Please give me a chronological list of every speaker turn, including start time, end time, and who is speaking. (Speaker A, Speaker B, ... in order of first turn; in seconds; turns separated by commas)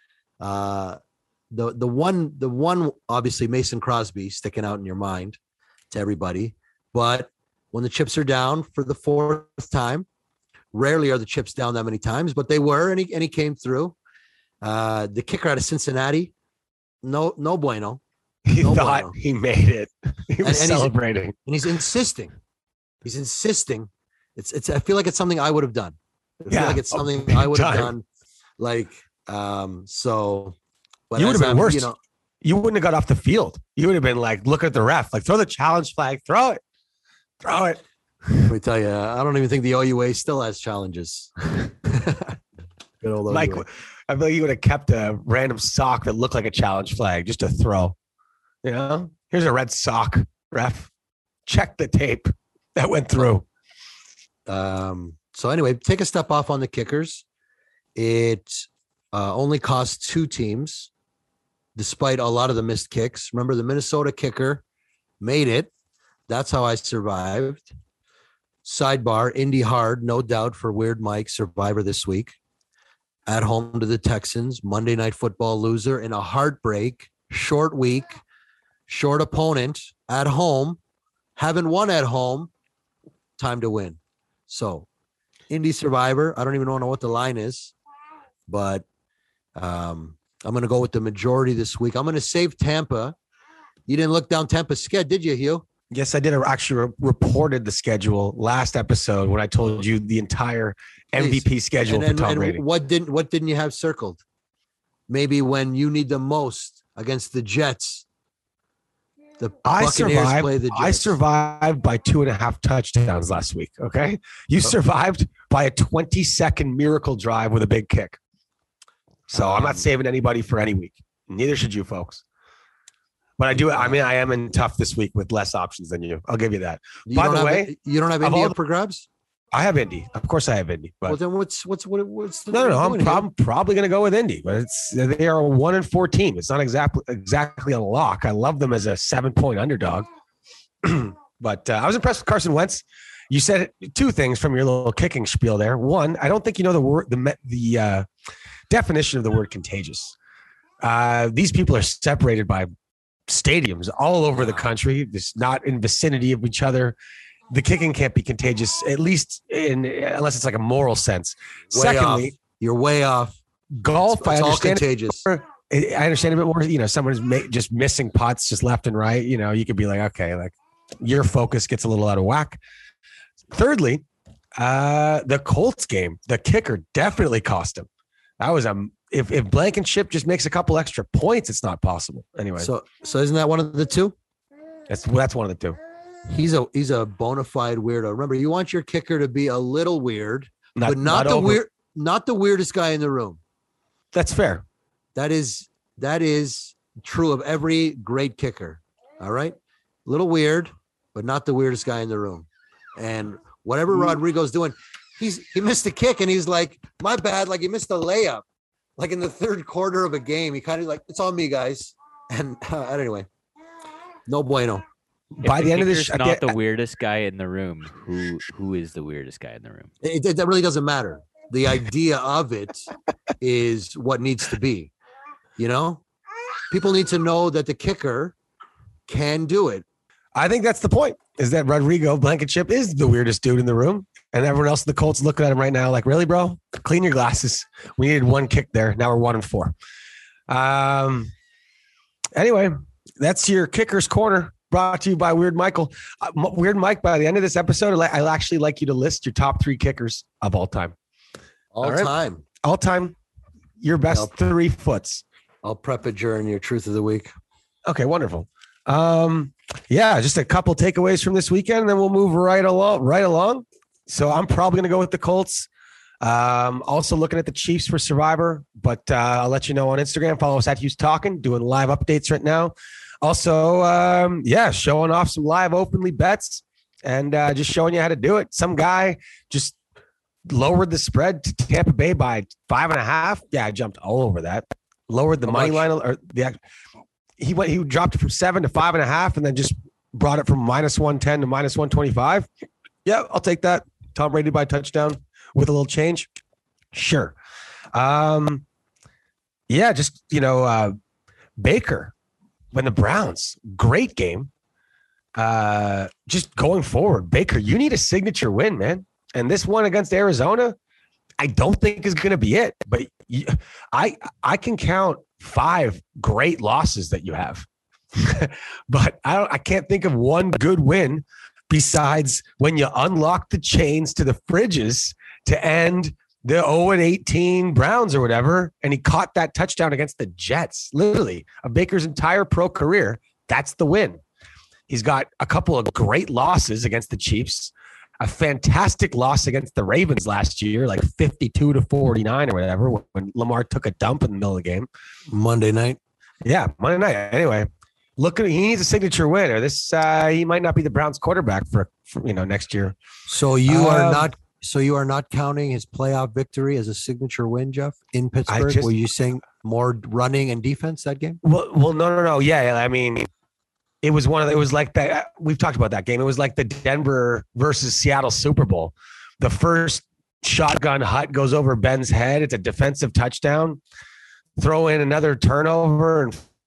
Speaker A: 0.4-1.0, Speaker A: 1.5-5.4, Speaker A: 5.9-10.1, Speaker A: 10.7-14.0, Speaker A: 14.6-16.3, Speaker A: 17.0-18.0, Speaker B: 18.5-21.4, Speaker A: 18.6-19.1, Speaker A: 20.4-22.3, Speaker A: 23.0-28.1, Speaker B: 26.5-27.9, Speaker A: 28.6-30.6, Speaker A: 31.1-32.0, Speaker B: 31.2-31.9, Speaker B: 32.4-36.6, Speaker B: 37.4-38.5, Speaker A: 38.5-42.4, Speaker A: 43.0-43.6, Speaker B: 43.3-48.0, Speaker B: 48.6-50.9, Speaker B: 51.5-53.5, Speaker A: 54.5-57.2, Speaker A: 58.0-60.9, Speaker A: 61.8-64.6, Speaker A: 65.2-65.7, Speaker A: 66.3-67.8, Speaker A: 68.7-72.4, Speaker A: 73.3-78.2, Speaker A: 78.9-80.8, Speaker A: 81.4-82.5, Speaker A: 83.4-84.9, Speaker A: 85.5-87.7, Speaker A: 88.5-88.8, Speaker A: 89.6-93.2, Speaker A: 93.9-95.7, Speaker B: 95.9-102.6, Speaker A: 101.2-104.2, Speaker A: 105.1-108.0, Speaker A: 109.4-111.2, Speaker B: 109.7-118.2, Speaker B: 119.3-122.2, Speaker A: 119.3-119.8, Speaker B: 123.4-128.6, Speaker A: 123.5-124.0, Speaker A: 127.0-129.1, Speaker B: 129.5-131.2, Speaker A: 131.1-133.3, Speaker B: 132.5-140.1, Speaker B: 140.8-148.1, Speaker B: 148.7-150.2, Speaker B: 150.8-152.7, Speaker B: 153.3-157.0, Speaker A: 154.3-154.7, Speaker B: 157.5-162.3, Speaker A: 161.7-163.4, Speaker B: 163.8-172.6, Speaker A: 164.1-165.2, Speaker B: 173.5-174.0, Speaker B: 174.6-177.9, Speaker B: 178.4-182.7, Speaker A: 182.6-184.2, Speaker B: 184.9-185.8, Speaker A: 186.3-193.4, Speaker B: 190.8-191.6, Speaker B: 194.1-194.6, Speaker A: 195.2-208.4, Speaker A: 209.0-213.3, Speaker A: 214.3-214.8, Speaker B: 215.4-216.5, Speaker C: 215.4-219.9, Speaker A: 220.0-222.9, Speaker A: 223.4-224.9, Speaker A: 225.6-226.0, Speaker A: 226.7-228.4, Speaker A: 229.1-229.8, Speaker B: 230.3-239.8, Speaker B: 240.5-241.3, Speaker B: 242.4-250.9, Speaker A: 251.7-252.4, Speaker B: 251.8-253.2, Speaker B: 253.8-255.2, Speaker A: 255.6-257.3, Speaker B: 257.9-265.7, Speaker B: 266.2-279.8, Speaker B: 280.5-286.6, Speaker A: 285.5-285.9, Speaker B: 287.4-292.5, Speaker B: 293.1-296.3, Speaker B: 296.9-297.4, Speaker B: 297.9-298.6, Speaker B: 299.7-300.9, Speaker B: 301.6-302.1, Speaker B: 302.7-304.5, Speaker B: 305.4-310.8, Speaker B: 311.4-334.2, Speaker B: 334.9-344.9, Speaker A: 345.3-346.0, Speaker B: 346.4-347.7, Speaker B: 348.2-352.9, Speaker A: 353.3-361.4, Speaker B: 353.7-354.3, Speaker B: 358.5-358.9, Speaker B: 361.4-363.3, Speaker B: 364.0-373.8, Speaker B: 374.6-376.4